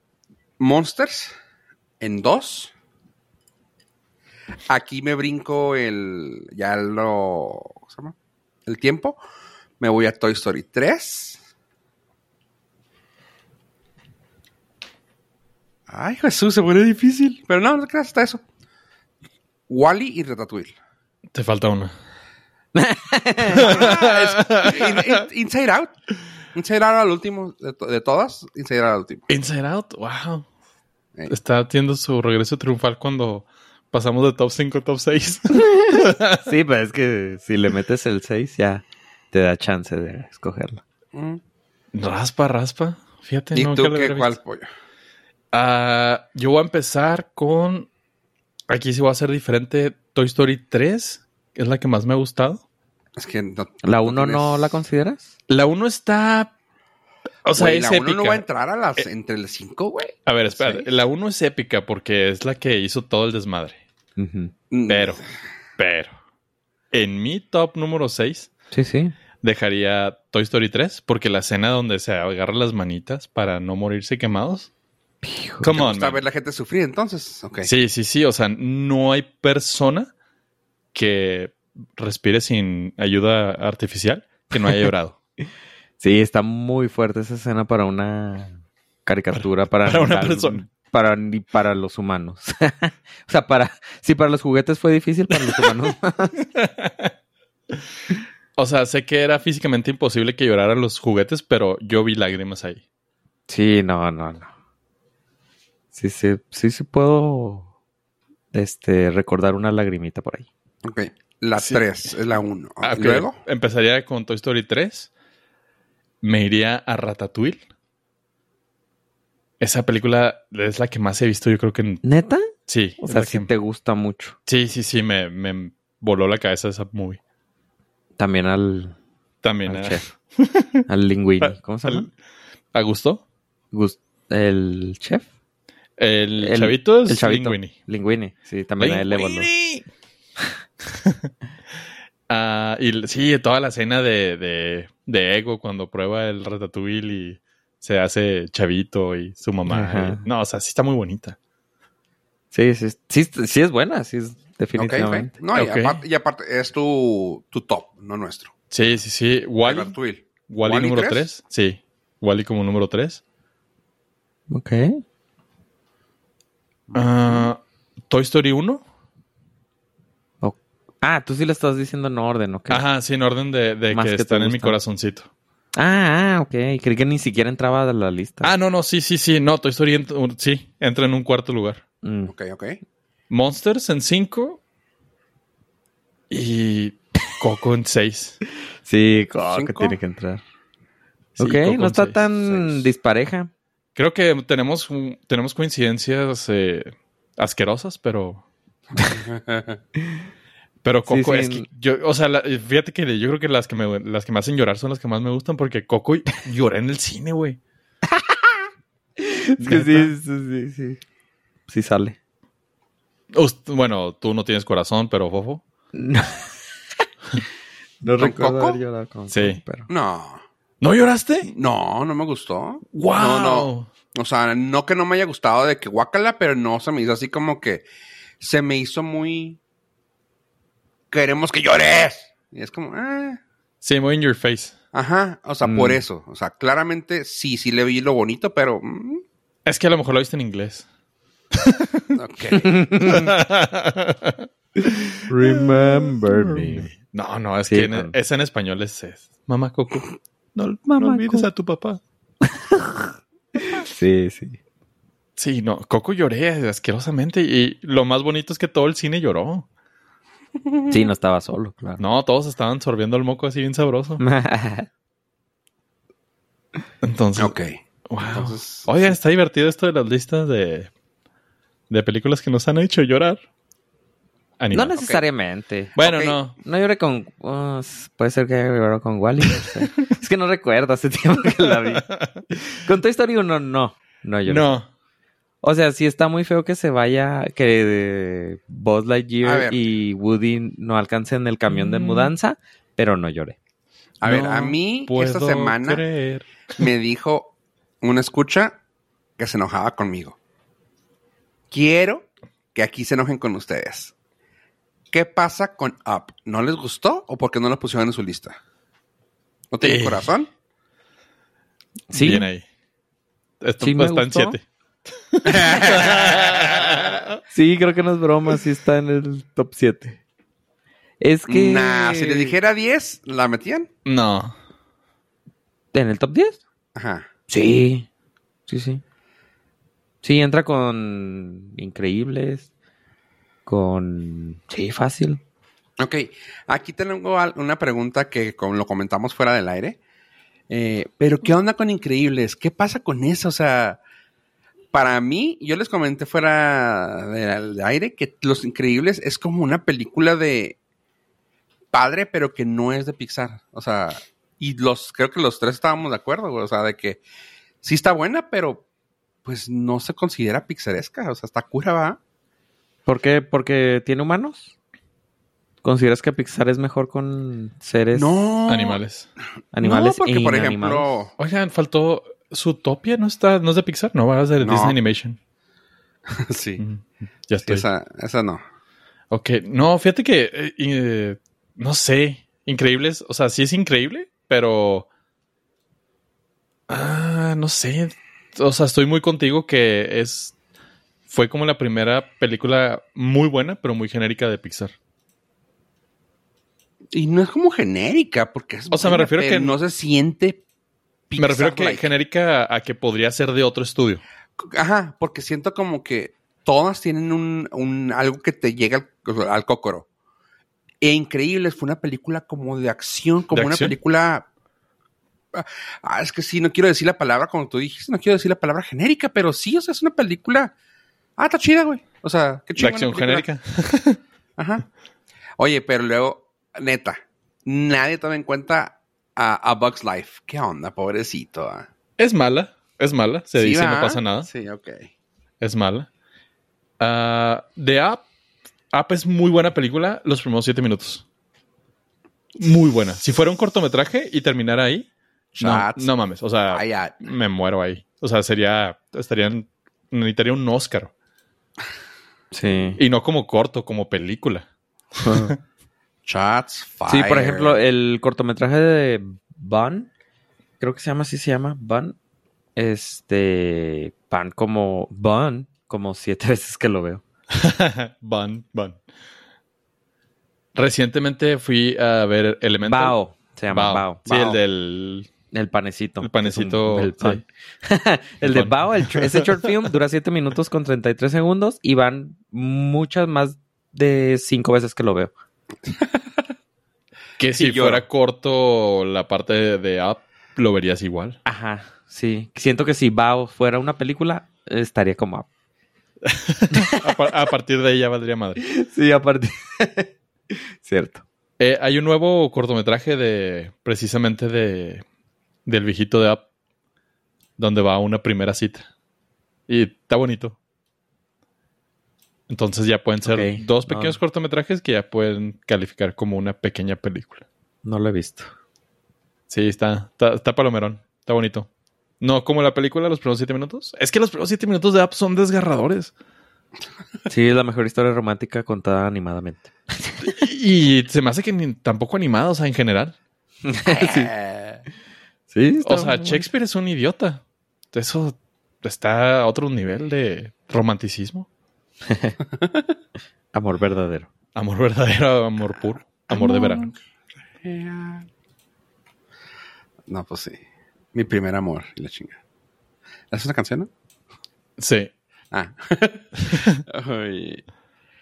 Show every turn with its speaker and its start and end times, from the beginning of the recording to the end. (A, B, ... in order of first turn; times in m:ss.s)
0:00.6-0:01.4 A
0:02.0-0:02.7 A
0:04.7-0:08.2 A
0:08.7-0:09.2 A
0:09.8-0:11.4 A
0:15.9-0:18.4 A
0:19.7-0:20.8 A
0:21.3-0:21.9 B
0:22.8-0:23.8 C
0:23.5-0:25.2 B
0:23.5-0:26.0 A
0:26.5-0:29.3 A
0:29.3-0:30.5 B
0:31.3-0:36.5 B
0:35.7-0:40.8 C
0:41.1-0:41.4 A
0:41.9-0:44.4 B
0:43.5-0:44.7 A
0:45.5-0:47.9 B
0:48.7-0:52.6 B
0:53.2-0:54.7 A
0:53.8-0:55.3 C
0:55.5-0:56.5 B
0:57.4-0:58.4 B
0:57.6-1:00.9 A
1:00.3-1:03.8 B
1:04.2-1:04.5 C
1:04.7-1:05.2 A
1:04.9-1:05.2 B
1:05.8-1:06.1 B
1:06.9-1:08.5 B
1:08.7-1:09.1 C
1:09.4-1:14.7 B
1:15.2-1:15.7 C
1:15.6-1:16.2 B
1:15.7-1:17.7 A
1:17.6-1:20.1 B
1:20.9-1:25.2 B
1:24.5-1:24.9 C
1:26.0-1:36.4 C
1:29.3-1:30.6 B
1:35.3-1:35.8 B
1:36.5-1:37.1 B
1:38.6-1:42.8 B
1:43.5-1:44.5 C
1:45.9-1:47.7 C
1:48.5-1:50.5 C
1:50.8-1:53.4 A
1:52.8-1:55.1 B
1:56.2-1:57.6 B
1:59.6-2:02.0 B
2:02.0-2:04.4 C
2:02.7-2:03.5 B
2:04.5-2:07.2 B
2:08.2-2:09.0 C
2:09.4-2:10.9 B
2:09.7-2:10.1 C
2:10.9-2:12.1 C
2:11.4-2:12.1 B
2:12.7-2:13.2 B
2:13.7-2:15.3 C
2:16.0-2:17.7 B
2:16.4-2:19.5 C
2:18.8-2:19.9 B
2:20.9-2:21.3 B
2:22.3-2:31.4 B
2:29.7-2:30.2 C
2:32.5-2:35.4 C
2:34.8-2:38.6 A
2:35.6-2:36.0 B
2:38.7-2:40.0 B
2:39.6-2:41.3 A
2:40.5-2:43.2 B
2:44.5-2:45.0 C
2:46.9-2:47.5 A
2:46.9-2:48.8 B
2:50.4-2:52.8 C
2:52.7-2:55.3 B
2:53.9-2:54.8 C
2:55.8-2:58.6 C
2:58.4-3:01.8 B
3:02.0-3:02.3 C
3:02.3-3:02.8 A
3:03.3-3:04.6 B
3:06.3-3:08.4 B
3:08.8-3:10.4 C
3:09.5-3:10.0 A
3:11.4-3:12.9 B
3:11.4-3:13.5 C
3:14.0-3:18.4 B
3:19.1-3:19.8 A
3:20.0-3:20.2 C
3:20.8-3:27.6 B
3:21.1-3:21.7 C
3:28.1-3:28.5 C
3:29.2-3:31.0 C
3:29.6-3:30.1 B
3:31.7-3:32.2 C
3:33.3-3:35.6 B
3:35.9-3:36.5 C
3:38.0-3:39.9 C
3:38.2-3:38.8 A
3:39.3-3:39.6 B
3:39.9-3:40.4 A
3:40.8-3:41.5 B
3:41.5-3:47.8 A
3:42.9-3:43.9 B
3:48.4-3:49.6 A
3:51.1-3:53.4 A
3:53.8-3:54.8 B
3:54.9-3:59.2 A
3:55.6-3:56.0 C
3:59.7-4:00.8 B
4:01.5-4:02.1 B
4:02.1-4:02.9 A
4:02.6-4:03.3 C
4:03.0-4:12.0 B
4:04.8-4:06.9 C
4:07.7-4:08.1 C
4:11.0-4:11.5 C
4:12.4-4:14.6 C
4:15.4-4:19.7 B
4:20.7-4:21.0 A
4:20.9-4:22.0 C
4:22.0-4:24.2 B
4:24.2-4:24.9 C
4:27.0-4:27.5 B
4:27.4-4:29.1 A
4:28.1-4:30.9 B
4:31.9-4:33.4 B
4:34.6-4:35.0 B
4:34.7-4:36.0 C
4:36.0-4:36.6 B
4:36.0-4:36.3 A
4:36.5-4:44.7 C
4:41.6-4:42.4 B
4:44.5-4:44.9 B
4:45.6-4:53.6 C
4:49.4-4:49.8 A
4:51.7-4:52.3 B
4:54.2-4:56.0 A
4:54.2-4:56.9 B
4:56.8-4:58.8 A
4:59.4-5:00.4 A
5:01.7-5:04.1 A
5:05.1-5:08.6 A
5:09.7-5:10.5 A
5:09.8-5:10.3 B
5:12.1-5:12.5 C
5:12.1-5:12.6 B
5:13.6-5:14.6 B
5:13.8-5:14.6 C
5:15.3-5:17.4 B
5:15.4-5:17.0 A
5:17.5-5:20.2 C
5:21.2-5:22.6 C
5:21.5-5:23.9 A
5:24.0-5:24.5 B
5:25.9-5:26.6 C
5:27.0-5:27.3 A
5:27.5-5:28.1 C
5:28.7-5:29.0 C
5:30.2-5:32.7 C
5:33.7-5:35.4 C
5:36.0-5:40.0 A
5:40.7-5:44.0 A
5:44.9-5:50.8 A
5:51.9-5:57.2 A
5:57.8-5:58.8 A
5:59.4-6:02.2 A
6:03.1-6:04.7 C
6:05.8-6:08.5 C
6:08.1-6:09.0 A
6:08.7-6:09.3 B
6:09.7-6:11.1 C
6:09.8-6:11.3 A
6:11.4-6:15.4 B
6:14.6-6:15.0 A
6:16.3-6:16.8 A
6:16.8-6:17.8 B
6:17.6-6:18.6 A
6:19.3-6:25.1 B
6:26.9-6:30.5 B
6:31.3-6:34.9 B
6:37.1-6:40.6 A
6:38.9-6:39.7 B
6:41.3-6:42.1 A
6:41.4-6:44.2 B
6:44.6-6:50.1 A
6:51.0-6:54.5 A
6:53.5-6:54.0 B
6:55.5-7:00.7 A
7:01.4-7:03.5 A
7:02.8-7:04.2 B
7:04.6-7:04.8 A
7:05.6-7:11.9 A
7:12.2-7:14.5 B
7:13.6-7:15.1 A
7:15.6-7:16.1 B
7:17.0-7:18.2 B
7:18.9-7:21.2 B
7:22.6-7:25.1 B
7:25.5-7:26.1 A
7:25.6-7:31.1 B
7:26.7-7:27.2 A
7:32.5-7:33.0 C
7:33.0-7:34.7 B
7:35.2-7:35.6 B
7:35.2-7:35.5 C
7:36.3-7:37.8 A
7:37.1-7:40.1 C
7:40.8-7:42.2 C
7:42.8-7:47.2 C
7:47.5-7:49.0 B
7:50.8-7:53.2 B
7:52.8-7:54.2 C
7:53.7-7:55.3 B
7:54.3-7:54.6 A
7:55.5-8:05.3 C
7:56.2-7:57.4 B
7:58.4-7:59.7 B
8:05.9-8:06.4 A
8:07.4-8:11.4 B
8:07.5-8:08.0 A
8:11.4-8:15.5 C
8:16.2-8:18.6 B
8:16.7-8:17.1 C
8:18.6-8:21.2 C
8:21.6-8:25.0 B
8:25.7-8:26.4 B
8:27.6-8:28.9 B
8:29.7-8:30.6 B
8:32.5-8:37.4 B
8:33.2-8:34.2 C
8:37.8-8:38.5 C
8:39.5-8:41.7 B
8:42.2-8:46.1 B
8:47.3-8:50.4 C
8:50.2-8:53.2 B
8:53.7-8:54.3 C
8:53.9-8:54.8 A
8:55.5-8:56.5 C
8:55.8-8:57.4 B
8:57.9-9:01.5 B
9:02.1-9:02.4 C
9:03.5-9:04.3 C
9:04.6-9:06.9 B
9:06.3-9:06.9 A
9:07.6-9:08.3 A
9:10.1-9:10.6 A
9:11.1-9:12.4 A
9:13.3-9:13.9 A
9:14.8-9:15.1 B
9:15.5-9:17.6 A
9:16.5-9:16.8 B